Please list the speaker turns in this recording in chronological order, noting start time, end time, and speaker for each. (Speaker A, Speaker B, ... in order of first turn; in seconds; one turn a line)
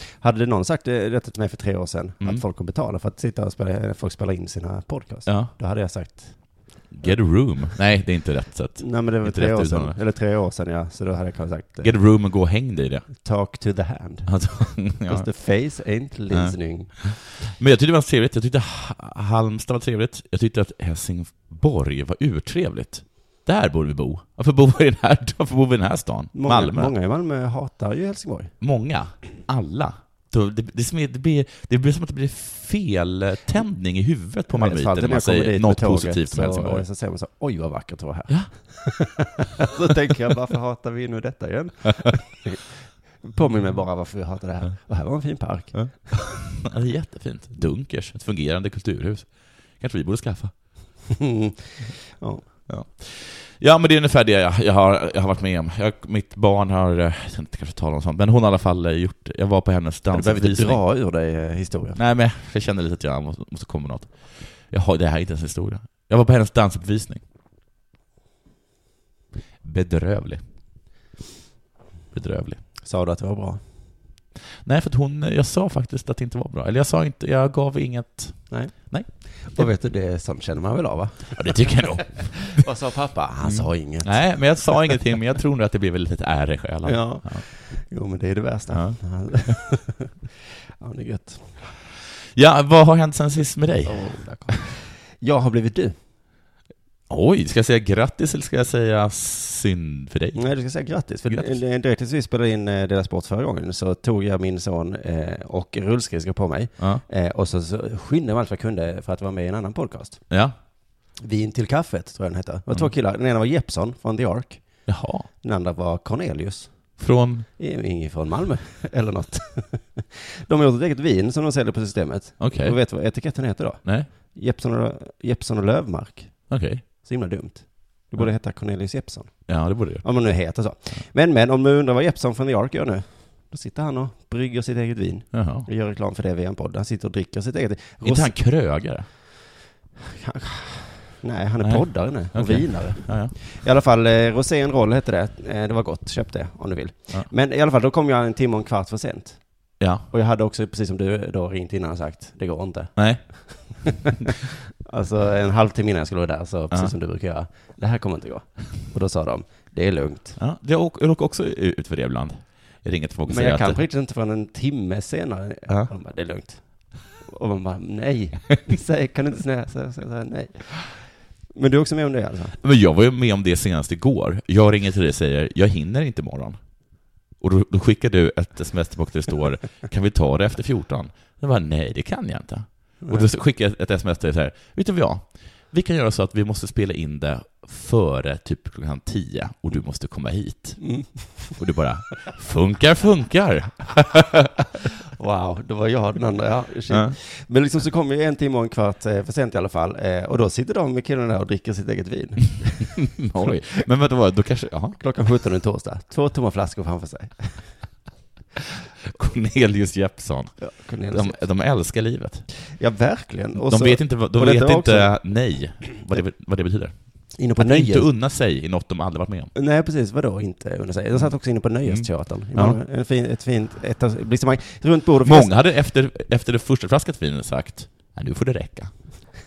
Speaker A: 0.2-7.1
Speaker B: 5.2-5.5
Speaker B: 6.9-9.9
Speaker A: 8.8-11.9
Speaker B: 11.8-13.1
Speaker A: 13.2-17.0
Speaker B: 14.2-15.3
Speaker B: 16.3-26.9
Speaker A: 26.3-28.5
Speaker B: 28.6-36.9
Speaker A: 34.5-46.1
Speaker B: 43.5-43.8
Speaker B: 45.7-50.5
Speaker A: 51.1-52.4
Speaker B: 52.7-60.8
Speaker A: 60.1-62.0
Speaker B: 61.9-67.2
Speaker B: 69.6-70.4
Speaker B: 72.1-72.6
Speaker A: 72.8-73.6
Speaker B: 74.6-79.7
Speaker A: 78.5-85.0
Speaker B: 81.3-82.6
Speaker B: 83.4-87.4
Speaker A: 86.8-90.1
Speaker B: 88.7-89.0
Speaker A: 90.8-91.7
Speaker B: 92.3-94.1
Speaker A: 93.8-95.9
Speaker B: 97.1-100.4
Speaker A: 100.3-110.2
Speaker B: 101.3-101.6
Speaker B: 110.3-110.5
Speaker A: 111.2-114.6
Speaker B: 114.9-115.3
Speaker A: 115.4-116.7
Speaker B: 117.0-117.5
Speaker A: 117.6-126.4
Speaker B: 122.4-122.8
Speaker B: 123.8-124.1
Speaker B: 126.5-126.8
Speaker A: 127.0-138.3
Speaker B: 129.5-130.0
Speaker B: 135.3-135.7
Speaker B: 138.0-139.1
Speaker A: 140.1-149.4
Speaker B: 141.6-143.3
Speaker B: 149.8-150.1
Speaker A: 150.1-160.4
Speaker B: 152.9-153.8
Speaker B: 160.4-163.8
Speaker A: 163.3-171.0
Speaker A: 171.5-172.6
Speaker B: 172.6-176.6
Speaker B: 177.4-190.8
Speaker A: 183.0-183.3
Speaker A: 190.8-191.6
Speaker B: 191.6-194.5
Speaker A: 195.2-203.1
Speaker B: 196.9-197.1
Speaker B: 203.0-205.0
Speaker A: 205.0-207.7
Speaker B: 209.0-212.5
Speaker A: 210.6-211.4
Speaker A: 212.7-215.1
Speaker B: 213.6-216.9
Speaker A: 217.4-218.1
Speaker B: 217.6-219.5
Speaker A: 219.5-225.5
Speaker B: 221.8-222.8
Speaker B: 225.2-228.9